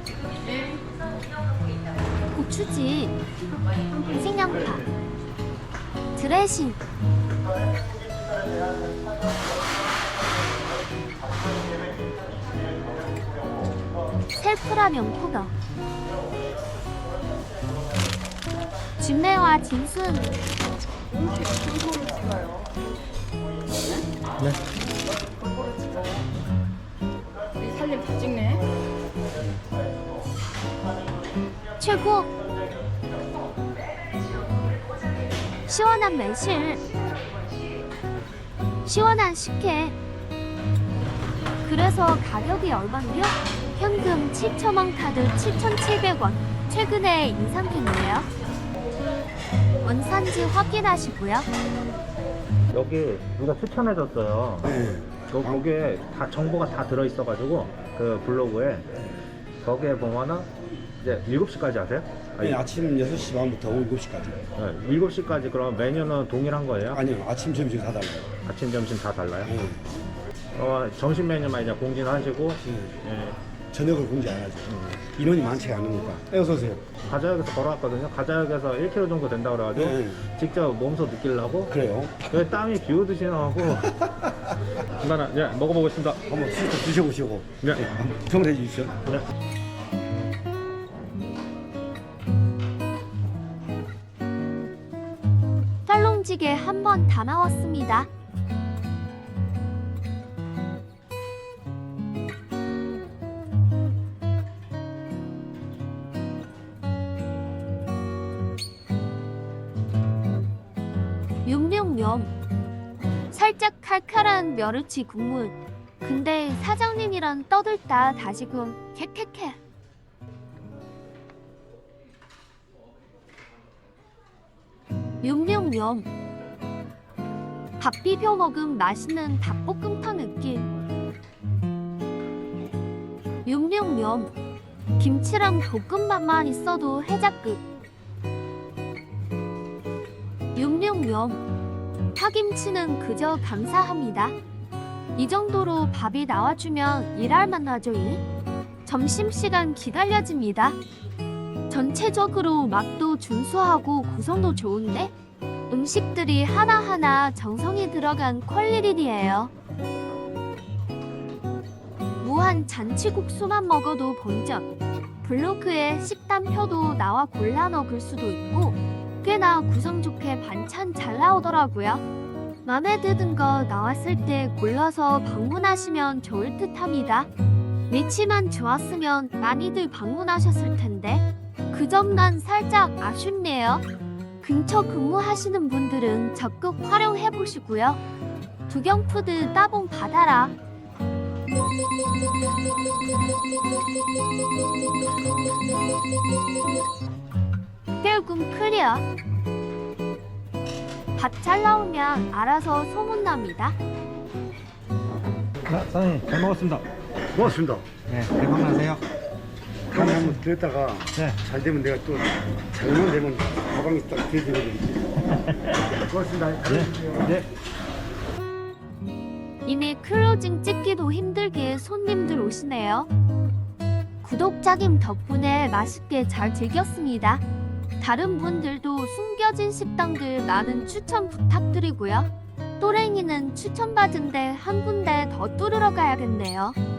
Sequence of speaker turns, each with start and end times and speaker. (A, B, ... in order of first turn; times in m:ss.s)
0:00.5-0:00.8 A
0:02.3-0:03.2 B
0:04.1-0:04.9 B
0:06.2-0:06.8 B
0:14.3-0:15.5 B
0:19.0-0:20.4 B
0:21.1-0:22.8 A
0:23.7-0:24.1 A
0:25.4-0:26.2 A
0:27.6-0:28.7 A
0:31.8-0:32.3 B
0:35.7-0:36.8 B
0:38.8-0:40.0 B
0:41.6-0:48.3 B
0:49.8-0:51.5 B
0:52.7-0:54.7 C
0:54.6-0:55.6 D
0:55.3-0:59.0 C
0:59.6-1:00.5 C
1:01.0-1:02.6 C
1:02.4-1:04.5 D
1:04.6-1:07.0 C
1:06.9-1:08.4 D
1:08.4-1:09.7 C
1:09.5-1:09.8 D
1:10.6-1:13.4 C
1:12.6-1:13.0 D
1:13.7-1:17.0 D
1:17.0-1:24.0 C
1:19.8-1:20.2 D
1:21.7-1:22.3 D
1:24.8-1:26.2 C
1:26.3-1:29.0 D
1:27.6-1:27.9 C
1:35.9-1:38.1 B
1:51.5-1:52.3 B
1:53.3-1:59.6 B
2:05.2-2:06.1 B
2:07.8-2:10.7 B
2:13.4-2:14.3 B
2:15.0-2:17.6 B
2:20.6-2:21.4 B
2:22.2-2:24.4 B
2:25.2-2:28.2 B
2:28.9-2:30.8 B
2:31.7-2:35.1 B
2:35.7-2:39.5 B
2:42.2-2:44.7 B
2:45.2-2:52.0 B
2:52.6-2:57.3 B
2:57.9-3:03.8 B
3:04.4-3:08.0 B
3:08.7-3:10.5 B
3:18.0-3:19.0 B
3:21.2-3:23.8 B
3:25.6-3:29.0 C
3:27.3-3:27.9 D
3:29.9-3:35.1 D
3:30.0-3:30.4 C
3:31.2-3:31.4 C
3:35.4-3:35.7 C
3:35.9-3:37.3 D
3:36.7-3:37.5 C
3:39.6-3:43.1 B
3:44.2-3:47.4 B
3:48.0-3:52.3 B
3:52.8-3:56.8 B